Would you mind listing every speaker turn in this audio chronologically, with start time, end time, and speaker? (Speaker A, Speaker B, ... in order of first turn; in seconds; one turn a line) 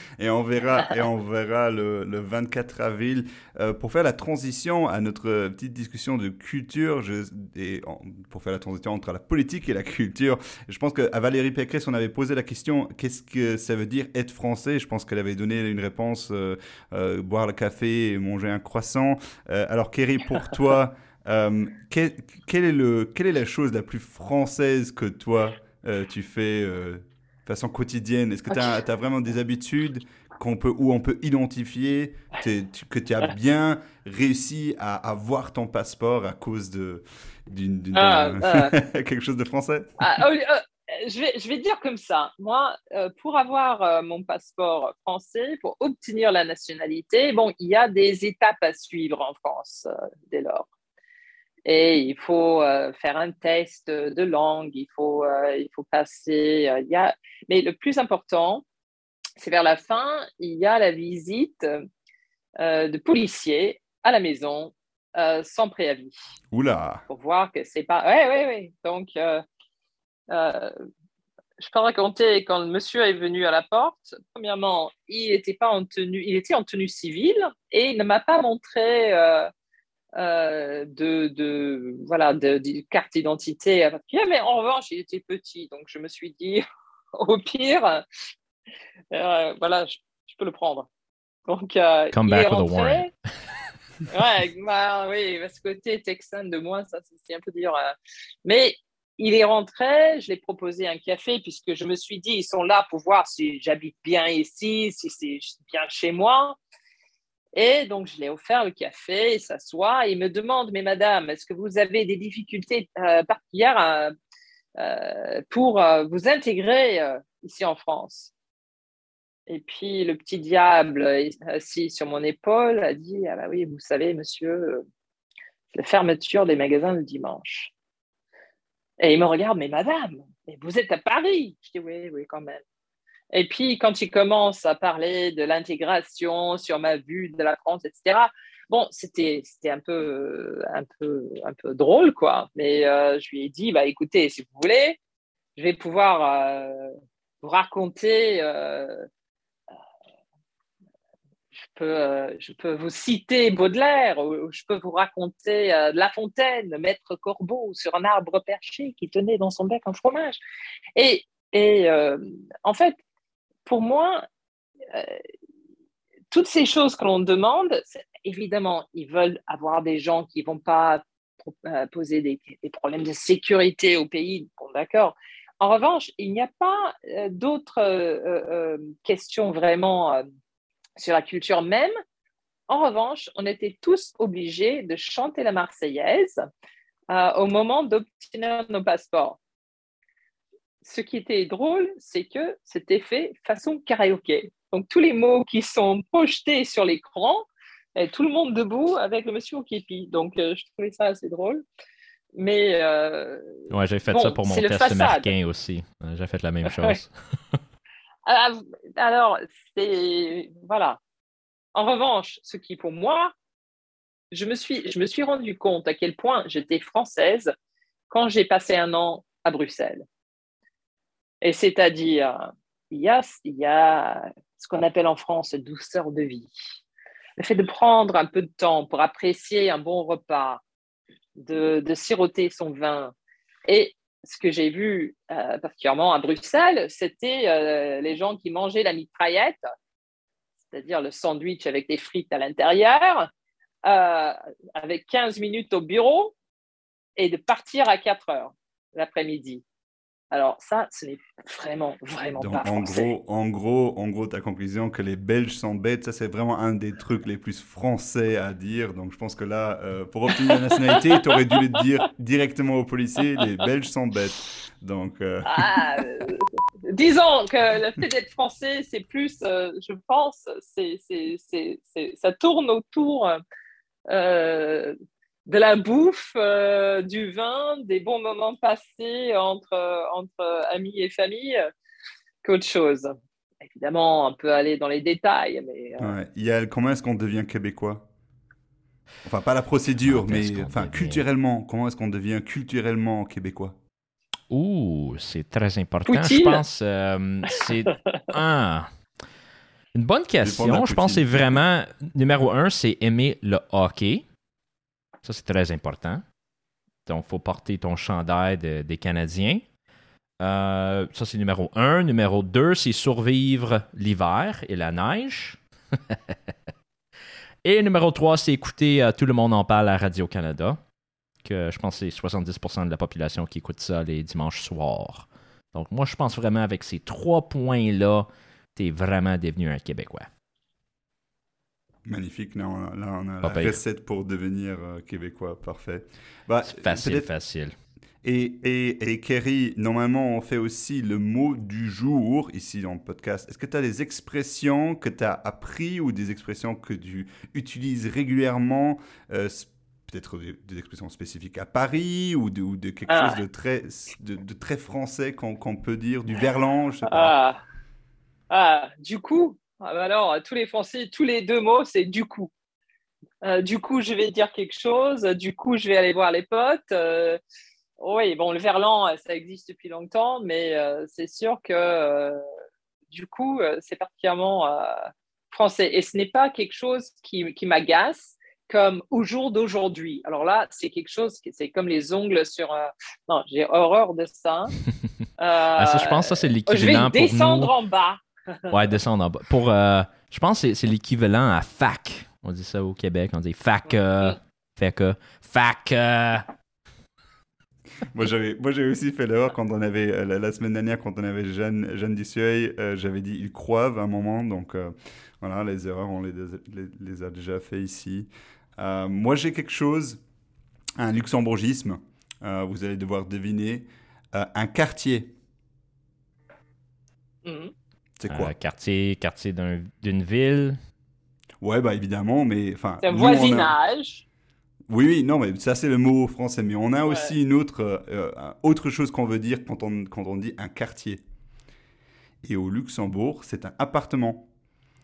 Speaker A: 0.2-39.9
Speaker B: 38.0-38.7
Speaker B: 40.0-50.7
Speaker B: 51.6-58.6
Speaker B: 59.4-61.8
Speaker B: 62.6-66.2
Speaker A: 66.5-67.0
Speaker B: 67.1-69.4
Speaker B: 70.3-70.7
Speaker B: 71.6-79.5
Speaker B: 80.2-86.7
Speaker B: 87.2-88.0
Speaker B: 89.1-90.9
Speaker B: 91.5-93.1
Speaker C: 92.1-93.1
Speaker B: 94.1-97.9
Speaker B: 98.5-106.6
Speaker B: 107.6-114.1
Speaker B: 114.8-118.3
Speaker B: 119.5-124.8
Speaker B: 125.7-127.7
Speaker B: 129.0-132.6
Speaker B: 133.3-145.0
Speaker B: 145.6-149.1
Speaker B: 151.5-160.4
Speaker B: 161.0-163.0
Speaker B: 163.7-164.2
Speaker B: 164.9-165.2
Speaker B: 166.3-180.2
Speaker B: 181.0-181.9
Speaker B: 182.7-186.4
Speaker B: 187.1-189.4
Speaker B: 190.8-201.6
Speaker B: 202.4-205.3
Speaker C: 203.7-207.6
Speaker B: 206.7-207.0
Speaker B: 208.3-211.0
Speaker B: 211.8-213.3
Speaker B: 214.3-217.5
Speaker B: 218.1-220.1
Speaker B: 221.4-222.4
Speaker B: 222.9-226.5
Speaker B: 227.4-230.6
Speaker B: 231.4-233.1
Speaker B: 233.7-239.6
Speaker B: 240.7-243.3
Speaker B: 243.9-246.3
Speaker B: 247.2-249.6
Speaker B: 250.3-253.1
Speaker A: 252.4-266.1
Speaker B: 265.5-273.4
Speaker B: 274.1-281.7
Speaker B: 282.4-286.1
Speaker A: 286.0-288.1
Speaker A: 289.2-293.8
Speaker C: 290.1-291.2
Speaker C: 294.5-298.9
Speaker B: 296.1-296.6
Speaker C: 299.9-304.2
Speaker A: 300.4-301.6
Speaker C: 305.2-306.2
Speaker C: 307.1-309.6
Speaker C: 310.4-316.4
Speaker C: 317.6-320.8
Speaker C: 321.4-330.3
Speaker A: 332.1-337.3
Speaker C: 333.4-333.8
Speaker C: 336.6-337.7
Speaker A: 338.2-357.4
Speaker B: 353.1-353.4
Speaker B: 357.1-357.6
Speaker B: 358.5-362.5
Speaker B: 363.4-367.4
Speaker B: 368.0-372.4
Speaker B: 373.1-384.7
Speaker B: 385.4-388.8
Speaker C: 385.8-387.7
Speaker C: 388.7-396.5
Speaker B: 393.9-394.4
Speaker A: 398.1-410.2
Speaker A: 411.0-415.4
Speaker B: 417.4-417.7
Speaker A: 418.2-418.5
Speaker C: 418.3-420.8
Speaker A: 421.6-423.7
Speaker B: 423.0-424.2
Speaker A: 424.9-431.2
Speaker B: 427.1-427.3
Speaker A: 432.4-434.5